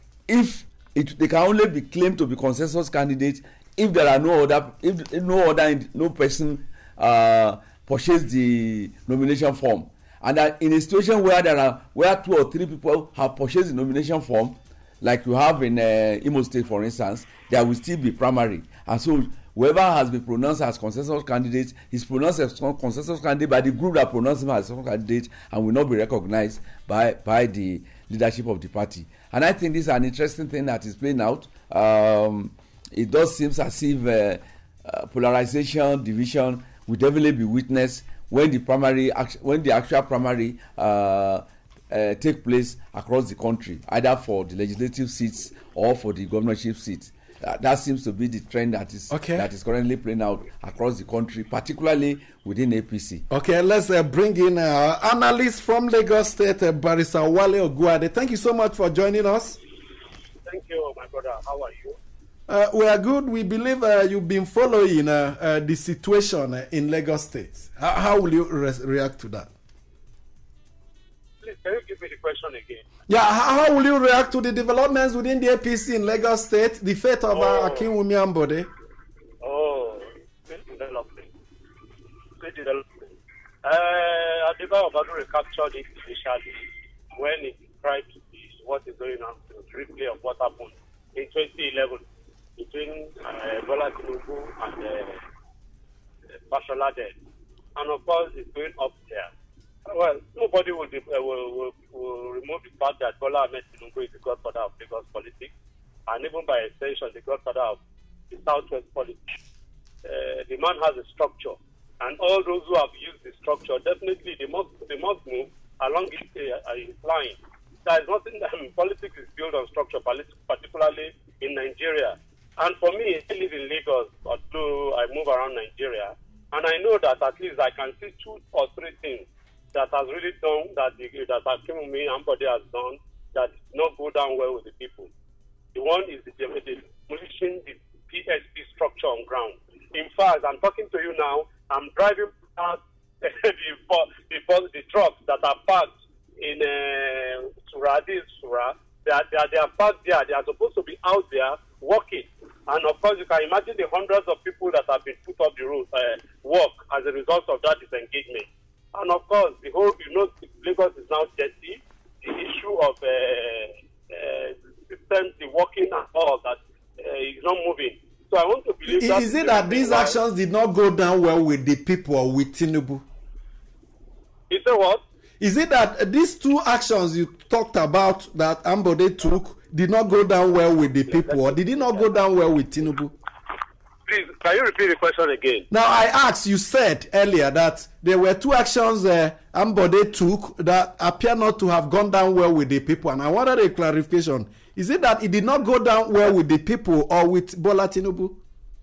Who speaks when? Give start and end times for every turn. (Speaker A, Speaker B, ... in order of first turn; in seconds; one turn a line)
Speaker A: 0.3-53.2
Speaker B: 49.1-49.5
Speaker B: 53.3-59.6
Speaker C: 60.5-62.0
Speaker B: 62.5-69.5
Speaker C: 71.4-72.8
Speaker B: 73.1-78.7
Speaker C: 77.3-77.9
Speaker C: 79.4-81.3
Speaker C: 82.4-82.9
Speaker C: 83.6-92.0
Speaker C: 92.6-95.2
Speaker C: 96.5-97.2
Speaker C: 97.8-99.3
Speaker C: 99.9-105.5
Speaker C: 106.1-107.8
Speaker C: 108.3-109.2
Speaker C: 110.0-135.1
Speaker C: 135.8-170.2
Speaker B: 168.9-173.1
Speaker C: 174.5-175.0
Speaker B: 175.4-183.1
Speaker C: 184.1-185.7
Speaker B: 185.7-198.4